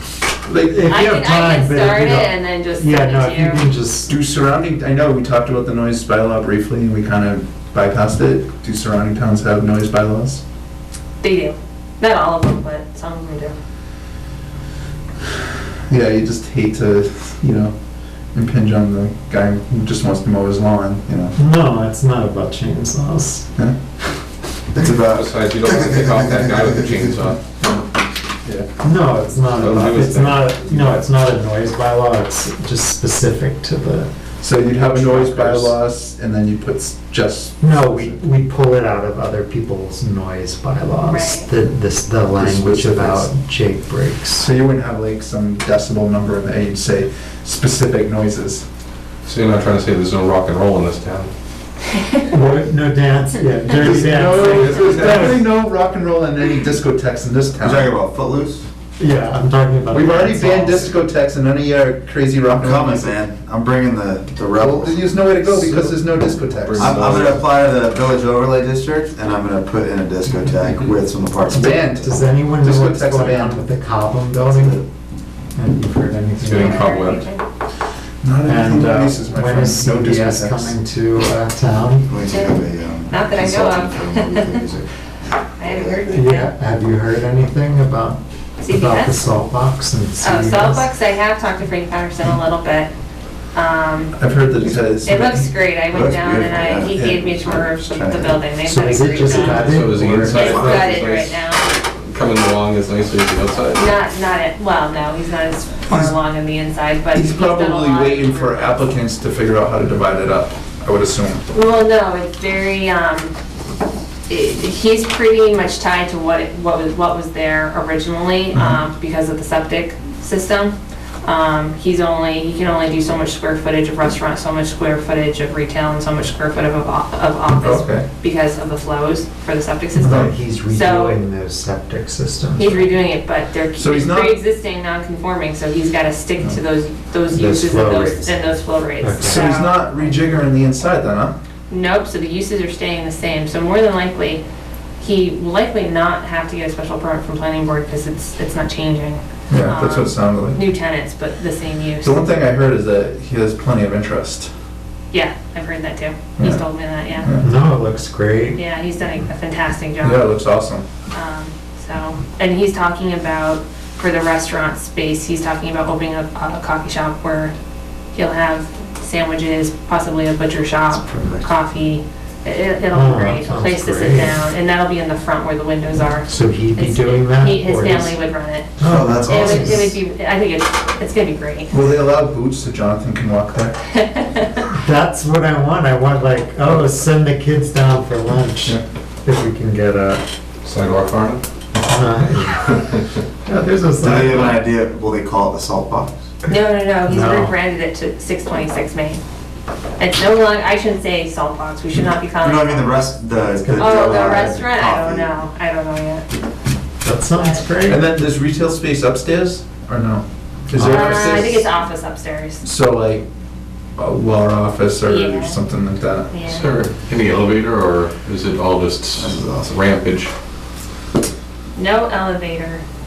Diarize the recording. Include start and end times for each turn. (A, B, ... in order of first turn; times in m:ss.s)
0:00.5-0:00.8 A
0:00.6-0:04.1 B
0:00.9-0:03.7 C
0:04.1-0:10.4 A
0:11.2-0:13.5 C
0:15.9-0:17.7 A
0:18.3-0:21.3 A
0:21.4-0:23.5 B
0:24.8-0:27.3 D
0:24.8-0:25.0 A
0:25.1-0:27.8 E
0:28.8-0:34.1 B
0:29.5-0:31.0 E
0:34.4-0:38.2 A
0:34.9-0:35.7 E
0:37.6-0:44.5 B
0:41.0-0:41.5 C
0:42.3-0:43.3 A
0:44.4-0:48.6 A
0:49.3-0:51.3 E
0:52.3-0:55.4 B
0:53.8-0:57.9 A
0:53.8-0:55.4 E
0:57.6-0:58.6 D
0:59.0-1:00.9 B
0:59.9-1:03.1 A
1:02.5-1:05.9 D
1:04.6-1:07.3 A
1:06.7-1:07.4 E
1:06.8-1:12.1 D
1:11.5-1:13.6 A
1:11.9-1:14.8 B
1:14.5-1:14.8 D
1:15.5-1:16.9 B
1:16.4-1:17.2 E
1:16.5-1:17.4 C
1:18.2-1:20.8 A
1:18.4-1:22.2 B
1:22.1-1:24.9 D
1:22.2-1:24.7 C
1:25.6-1:26.5 C
1:25.6-1:26.0 D
1:26.1-1:30.9 B
1:28.6-1:29.2 C
1:30.2-1:32.9 C
1:33.5-1:34.1 C
1:34.2-1:35.5 A
1:35.0-1:41.6 C
1:35.9-1:38.4 D
1:38.6-1:40.8 B
1:39.3-1:41.4 E
1:40.3-1:40.8 D
1:42.0-1:43.9 E
1:43.7-1:48.9 C
1:47.1-1:51.4 A
1:51.5-1:53.3 C
1:54.3-2:11.2 C
2:07.5-2:08.1 A
2:09.9-2:12.9 B
2:10.0-2:10.3 A
2:12.6-2:20.1 C
2:13.8-2:14.4 A
2:17.3-2:18.3 B
2:19.0-2:19.5 B
2:19.2-2:21.4 A
2:21.7-2:24.4 C
2:25.0-2:32.2 C
2:29.5-2:30.6 A
2:32.0-2:34.5 A
2:35.1-2:37.3 C
2:36.4-2:36.6 A
2:37.2-2:37.5 A
2:37.4-2:38.6 B
2:38.6-2:40.3 C
2:40.0-2:40.9 A
2:41.1-2:47.5 C
2:48.1-2:58.7 C
2:51.0-2:51.5 B
2:52.9-2:54.4 B
2:56.2-2:58.2 B
2:58.8-3:00.0 B
2:58.8-2:59.9 D
2:59.3-3:01.7 C
3:01.7-3:03.8 A
3:04.0-3:04.6 C
3:04.7-3:10.2 B
3:10.6-3:11.4 E
3:11.9-3:12.8 B
3:13.5-3:14.6 B
3:14.0-3:16.1 D
3:16.5-3:19.2 C
3:17.0-3:17.6 B
3:20.0-3:23.1 C
3:22.4-3:25.4 D
3:23.6-3:24.6 B
3:23.8-3:26.3 C
3:27.0-3:28.1 B
3:27.4-3:27.7 C
3:27.9-3:31.7 A
3:30.8-3:31.5 B
3:30.8-3:32.6 C
3:32.6-3:33.3 A
3:34.0-3:36.3 A
3:35.0-3:35.6 C
3:36.3-3:36.8 C
3:36.5-3:40.3 E
3:39.2-3:39.8 D
3:41.8-3:42.8 C